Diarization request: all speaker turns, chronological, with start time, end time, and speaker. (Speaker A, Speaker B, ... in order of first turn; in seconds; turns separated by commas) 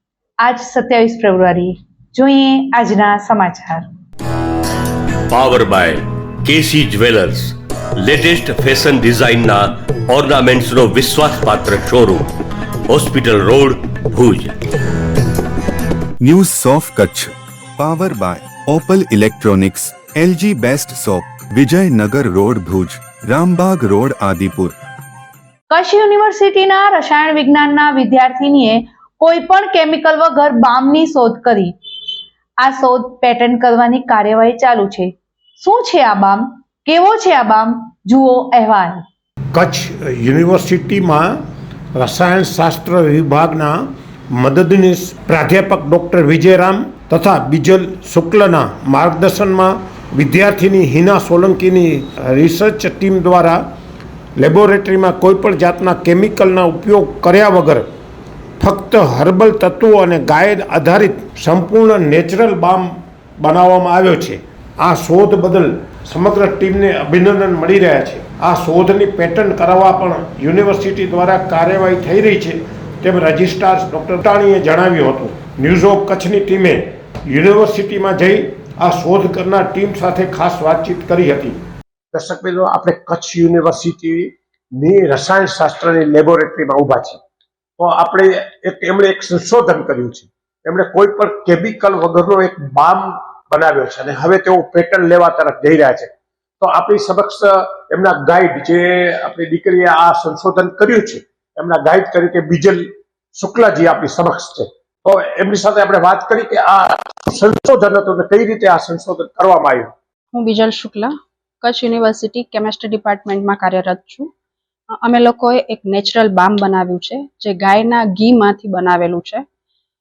Speaker A: 0.4-3.8, Speaker B: 5.3-12.3, Speaker B: 12.9-14.5, Speaker C: 16.2-24.8, Speaker A: 25.7-31.7, Speaker A: 32.6-35.1, Speaker A: 35.6-39.0, Speaker D: 39.5-53.6, Speaker D: 54.4-57.9, Speaker D: 58.6-81.6, Speaker D: 82.1-87.2, Speaker D: 87.8-96.1, Speaker D: 96.6-109.9, Speaker E: 110.3-111.1, Speaker E: 111.6-114.3, Speaker E: 115.0-119.4